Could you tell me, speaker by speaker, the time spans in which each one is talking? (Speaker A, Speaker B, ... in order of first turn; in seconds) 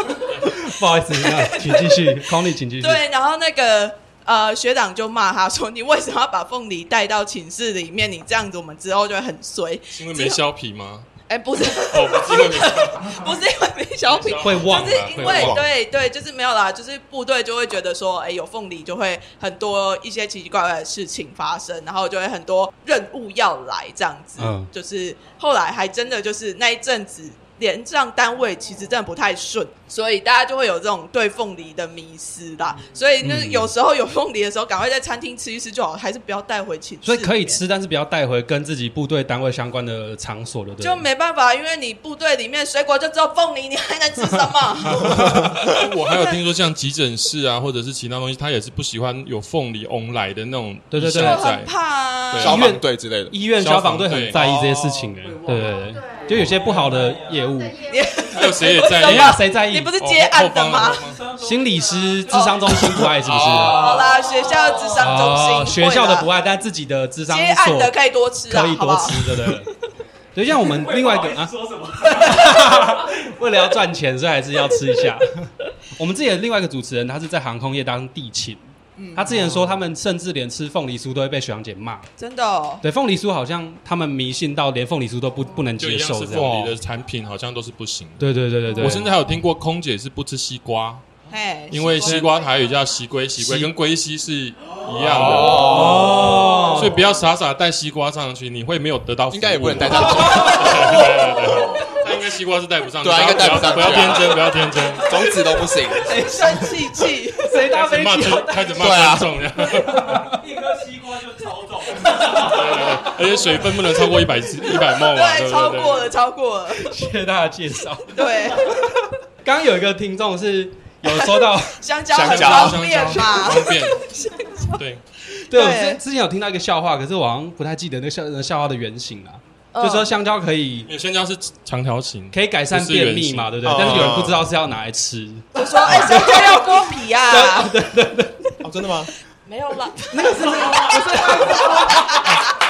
Speaker A: 0.5-3.0, 14.4-15.6, 24.4-24.7, 33.2-33.7, 37.0-41.1, 50.9-51.5, 52.5-57.9, 59.0-59.9, 61.4-63.9, 65.0-68.0, 68.5-69.7, 70.3-71.5, 72.1-82.1, 82.8-86.7, 88.2-89.1, 93.4-93.7, 95.2-96.9, 106.1-106.6, 107.4-108.7, 109.7-110.3, 116.8-121.8, 125.5-130.9, 132.3-138.6, 140.1-142.2
Speaker B: 1.4-1.8, 2.8-10.4, 11.3-37.6, 40.8-46.4, 51.1-52.6, 57.9-61.0, 62.3-63.0, 63.7-66.3, 67.3-69.6, 72.2-72.6, 79.0-79.4, 82.2-82.8, 91.3-92.2, 96.2-96.9, 106.0-107.5, 115.0-116.9, 118.1-118.9, 121.1-124.7, 125.5-126.0, 129.7-130.1, 135.6-137.7, 139.5-142.2
Speaker C: 9.9-11.1, 11.8-13.2, 14.1-15.6, 45.6-51.7, 52.3-52.6, 53.6-54.4, 58.3-61.2, 85.8-88.2, 88.8-91.0, 91.7-96.1, 96.7-105.1, 107.7-110.2, 112.3-116.1, 122.2-124.0, 124.8-125.0, 130.9-134.2
Speaker D: 15.3-15.7, 52.3-53.4, 54.3-55.1, 63.1-64.1, 95.0-96.5, 99.3-100.9, 103.0-104.4, 105.0-106.3, 108.8-109.4, 122.1-123.0, 133.6-134.5, 138.6-139.1
Speaker E: 56.4-57.3, 61.0-62.6, 70.6-72.5, 110.3-113.2